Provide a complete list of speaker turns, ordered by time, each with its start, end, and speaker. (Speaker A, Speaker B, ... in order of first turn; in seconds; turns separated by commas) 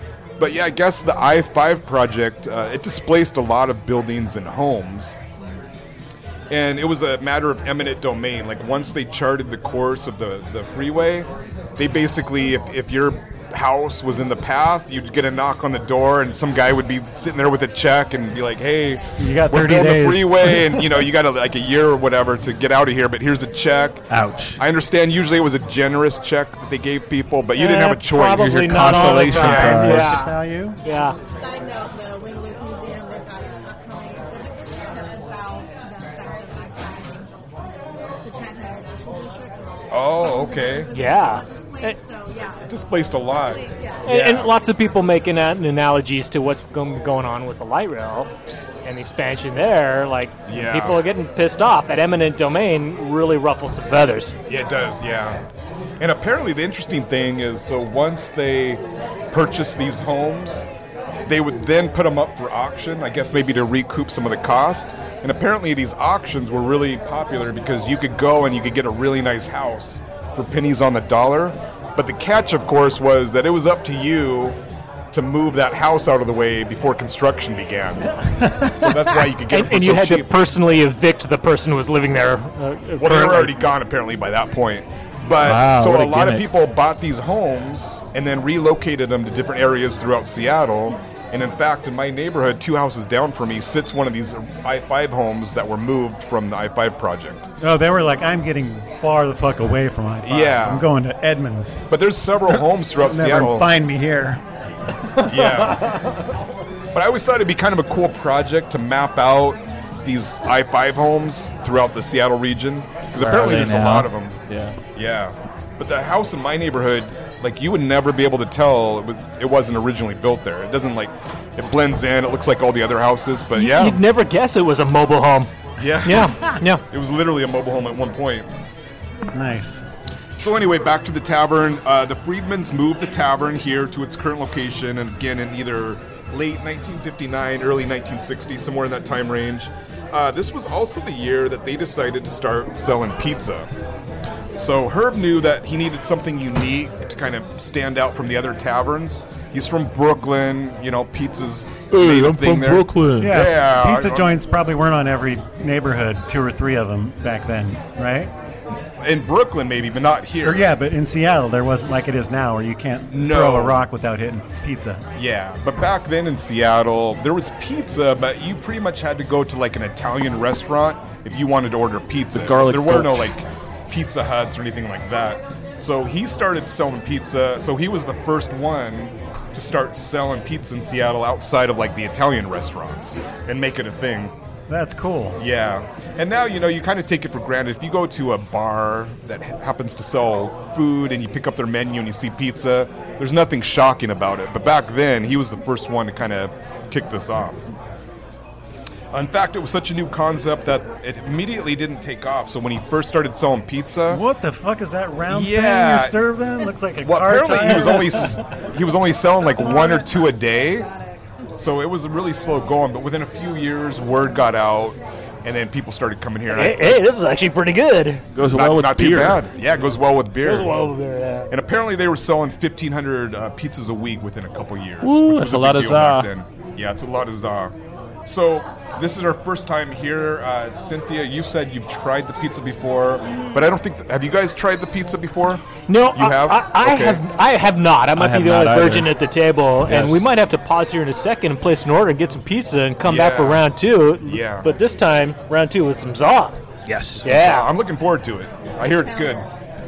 Speaker A: 0.4-5.2, Speaker A: 6.5-24.1, Speaker B: 19.2-20.9, Speaker C: 24.1-24.6, Speaker A: 24.6-29.8, Speaker D: 27.6-31.2, Speaker C: 28.3-30.2, Speaker B: 29.0-30.8, Speaker E: 31.2-37.3, Speaker E: 38.2-44.1, Speaker A: 39.9-40.9, Speaker D: 40.9-42.0, Speaker A: 42.7-44.5, Speaker D: 44.0-48.3, Speaker D: 48.8-54.3, Speaker A: 50.5-51.0, Speaker A: 54.5-55.4, Speaker A: 56.0-60.7, Speaker A: 61.2-74.6, Speaker A: 75.1-80.4, Speaker D: 79.5-83.6, Speaker A: 83.0-97.5, Speaker C: 85.4-86.5, Speaker B: 97.6-101.8, Speaker A: 100.2-100.9, Speaker A: 101.9-103.7, Speaker B: 102.4-104.4, Speaker A: 105.2-106.0, Speaker D: 105.6-106.1, Speaker A: 106.9-114.4, Speaker C: 113.2-114.8, Speaker A: 114.9-124.0, Speaker D: 123.5-126.8, Speaker A: 125.8-128.5, Speaker B: 129.3-129.8, Speaker A: 130.4-143.7, Speaker A: 144.5-154.3, Speaker C: 151.9-153.4, Speaker B: 153.2-158.3, Speaker A: 159.0-160.7, Speaker B: 160.4-165.0, Speaker A: 163.1-163.8, Speaker A: 165.1-184.3, Speaker C: 172.3-173.3, Speaker B: 184.7-185.4, Speaker A: 185.4-197.6, Speaker A: 199.1-204.2, Speaker B: 204.1-208.6, Speaker A: 205.3-206.2, Speaker A: 207.0-210.9, Speaker E: 209.8-210.2, Speaker A: 211.6-217.0, Speaker D: 216.5-218.2, Speaker C: 218.3-219.4, Speaker A: 218.4-220.8, Speaker D: 220.4-221.5, Speaker A: 221.5-237.2, Speaker C: 225.0-226.3, Speaker D: 235.9-246.6, Speaker C: 238.1-239.1, Speaker C: 239.8-240.2, Speaker A: 243.0-243.6, Speaker A: 244.2-244.7, Speaker C: 246.9-247.3, Speaker D: 247.2-247.7, Speaker A: 247.2-249.4, Speaker E: 248.7-249.4